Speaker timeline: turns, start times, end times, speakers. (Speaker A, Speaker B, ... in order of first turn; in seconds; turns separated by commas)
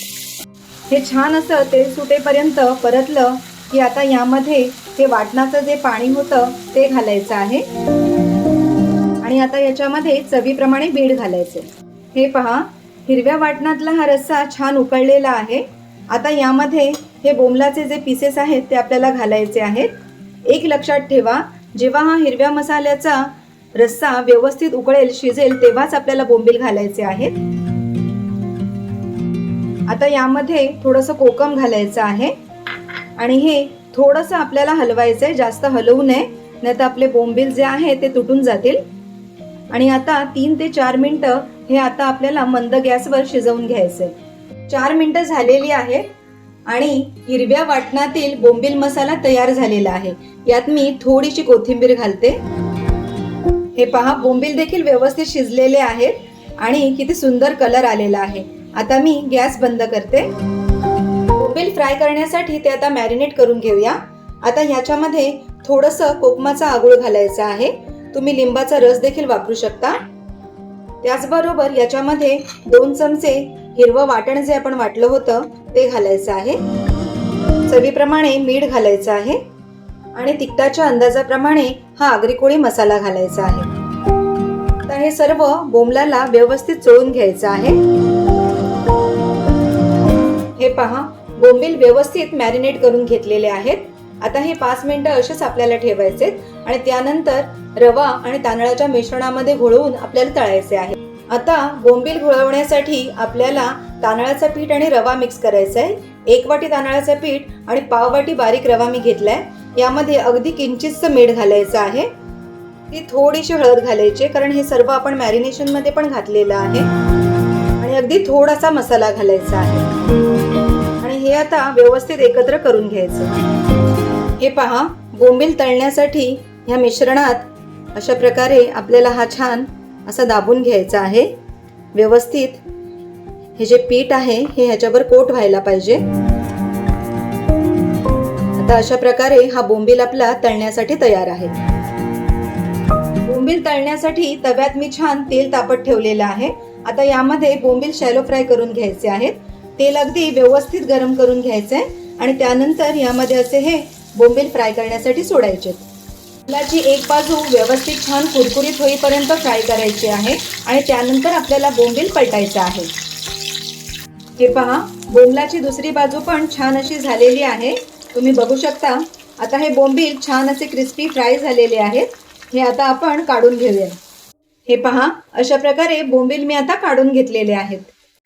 Speaker A: 0.9-7.7, Speaker A: 9.2-19.9, Speaker A: 20.5-27.4, Speaker A: 29.9-32.3, Speaker A: 33.2-38.8, Speaker A: 39.7-44.1, Speaker A: 44.7-46.1, Speaker A: 46.7-52.4, Speaker A: 53.8-60.3, Speaker A: 61.4-70.0, Speaker A: 71.0-76.6, Speaker A: 77.7-79.4, Speaker A: 80.2-83.7, Speaker A: 84.9-87.8, Speaker A: 90.6-112.1, Speaker A: 112.9-116.9, Speaker A: 117.8-119.9, Speaker A: 121.0-123.3, Speaker A: 124.4-131.3, Speaker A: 131.9-132.6, Speaker A: 133.6-136.0, Speaker A: 138.6-141.6, Speaker A: 143.2-155.8, Speaker A: 156.5-162.9, Speaker A: 164.4-174.0, Speaker A: 174.7-177.9